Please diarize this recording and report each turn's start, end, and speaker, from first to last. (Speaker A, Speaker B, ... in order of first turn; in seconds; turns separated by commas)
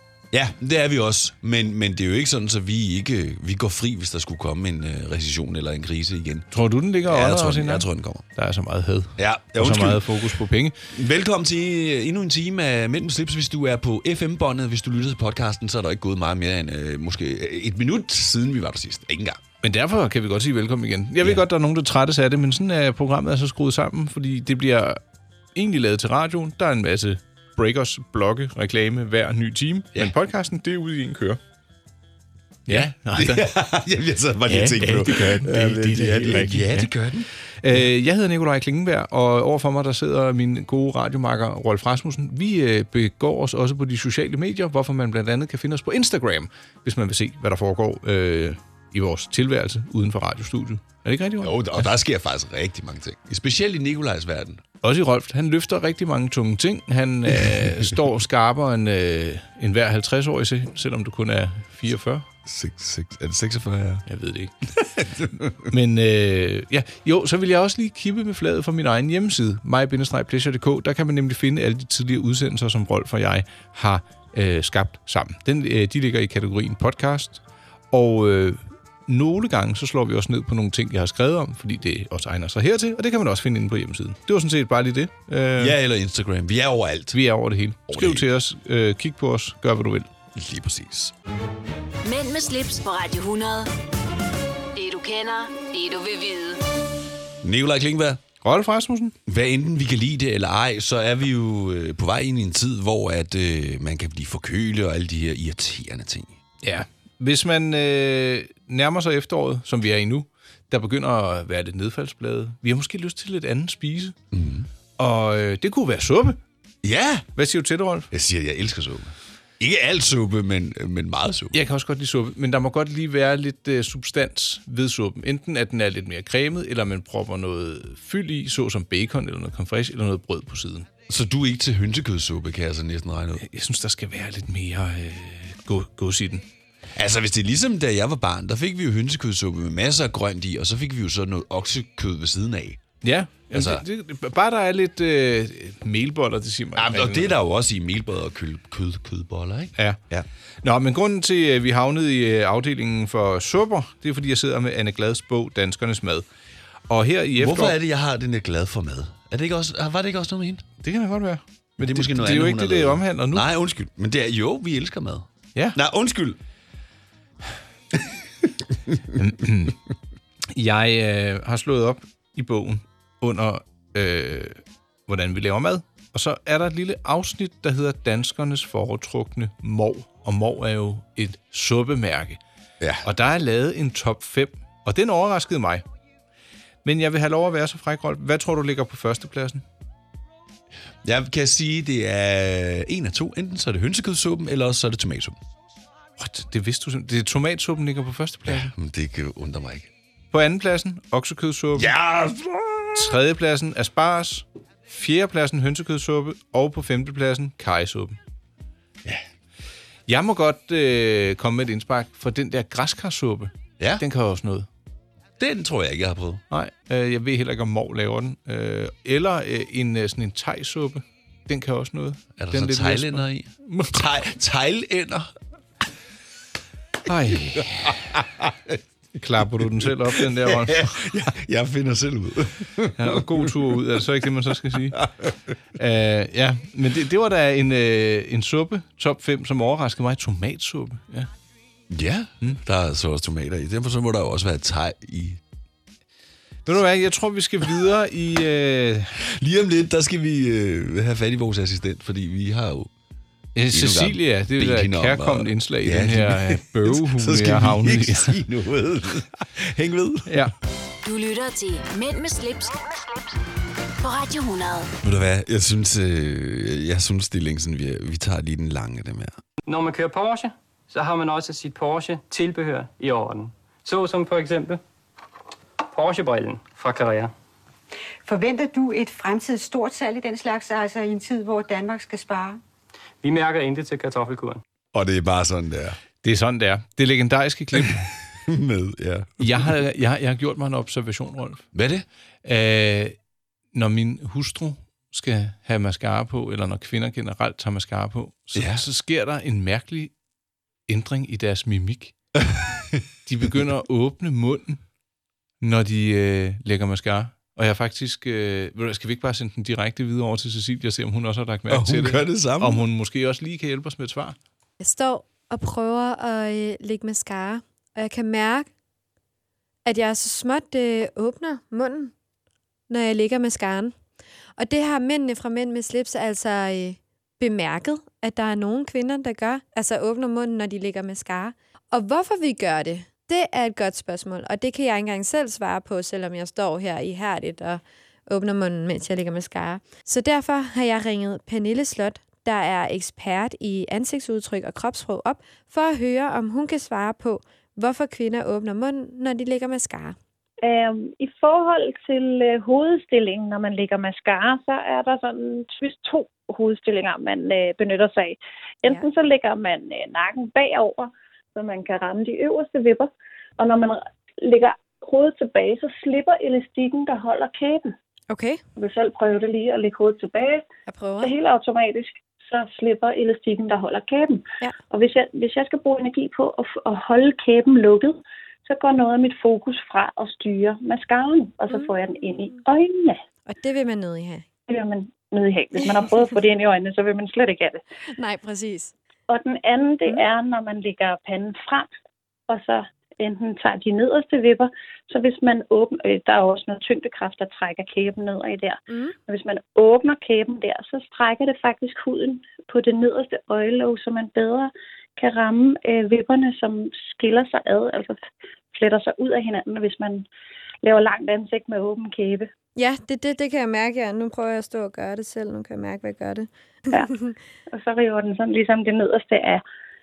Speaker A: 0.3-6.5, Speaker B: 6.5-10.7, Speaker A: 7.0-8.2, Speaker A: 9.2-10.1, Speaker A: 10.9-19.4, Speaker B: 19.6-25.0, Speaker B: 25.5-31.4, Speaker B: 32.7-33.5, Speaker A: 32.7-37.3, Speaker B: 34.5-36.9, Speaker B: 37.6-51.9, Speaker A: 51.4-54.6, Speaker B: 54.8-62.2, Speaker A: 62.4-64.0, Speaker B: 64.0-64.5, Speaker A: 65.0-65.5, Speaker B: 65.6-85.8, Speaker A: 85.6-87.2, Speaker B: 87.1-90.1, Speaker A: 87.9-88.3, Speaker A: 90.3-91.1, Speaker C: 92.0-93.7, Speaker C: 94.7-96.6, Speaker A: 97.4-98.2, Speaker B: 98.4-99.1, Speaker A: 99.2-106.3, Speaker B: 106.6-114.2, Speaker A: 114.3-114.7, Speaker B: 115.0-116.4, Speaker A: 116.8-117.3, Speaker B: 117.3-118.1, Speaker A: 118.1-121.6, Speaker B: 121.5-130.9, Speaker A: 131.1-133.4, Speaker B: 133.4-136.4, Speaker A: 136.9-142.8, Speaker B: 143.0-147.3, Speaker A: 143.5-143.8, Speaker A: 146.8-150.2, Speaker B: 150.6-156.2, Speaker B: 156.9-157.8, Speaker A: 157.4-160.6, Speaker B: 160.8-163.5, Speaker A: 161.8-166.4, Speaker B: 169.1-169.8, Speaker B: 170.5-182.4, Speaker A: 182.8-183.0, Speaker B: 183.0-185.8, Speaker B: 186.8-189.6, Speaker A: 191.0-195.4, Speaker B: 196.2-198.7, Speaker A: 198.4-199.9, Speaker B: 200.3-201.9, Speaker A: 201.8-203.0, Speaker B: 202.9-208.2, Speaker B: 210.1-214.7, Speaker A: 215.4-216.4, Speaker B: 216.5-224.0, Speaker A: 222.4-225.3, Speaker B: 227.0-228.1, Speaker A: 228.1-228.7, Speaker B: 229.2-231.1, Speaker A: 230.1-233.5, Speaker B: 232.9-235.0, Speaker A: 234.9-235.3, Speaker B: 235.7-241.3, Speaker A: 241.9-245.4, Speaker B: 246.7-249.2, Speaker A: 249.2-252.9, Speaker B: 253.5-258.4, Speaker A: 253.7-260.5, Speaker B: 260.2-260.5, Speaker C: 261.0-263.0, Speaker C: 264.0-264.9, Speaker A: 265.0-269.4, Speaker D: 269.6-274.8, Speaker D: 275.9-277.3, Speaker E: 278.2-282.6, Speaker D: 283.2-284.6, Speaker A: 284.9-286.0, Speaker B: 286.2-288.1, Speaker A: 288.4-289.7, Speaker B: 289.4-291.7, Speaker A: 291.7-292.1, Speaker B: 292.4-293.1, Speaker B: 293.7-300.1, Speaker A: 298.5-298.8, Speaker B: 300.9-302.1, Speaker A: 302.4-303.0, Speaker B: 303.2-304.8, Speaker B: 305.6-314.4, Speaker A: 311.7-312.8, Speaker F: 314.8-318.7, Speaker F: 319.9-322.1, Speaker F: 322.9-323.9, Speaker F: 324.6-350.1, Speaker G: 350.6-367.9, Speaker F: 368.3-368.6, Speaker G: 368.8-370.6, Speaker F: 370.9-371.3, Speaker G: 371.2-383.2, Speaker F: 383.5-384.4, Speaker G: 384.7-387.8, Speaker F: 388.1-388.9, Speaker G: 389.3-391.9, Speaker G: 392.5-410.2, Speaker F: 398.9-399.1, Speaker G: 410.8-412.5, Speaker F: 412.8-417.3, Speaker G: 417.7-419.6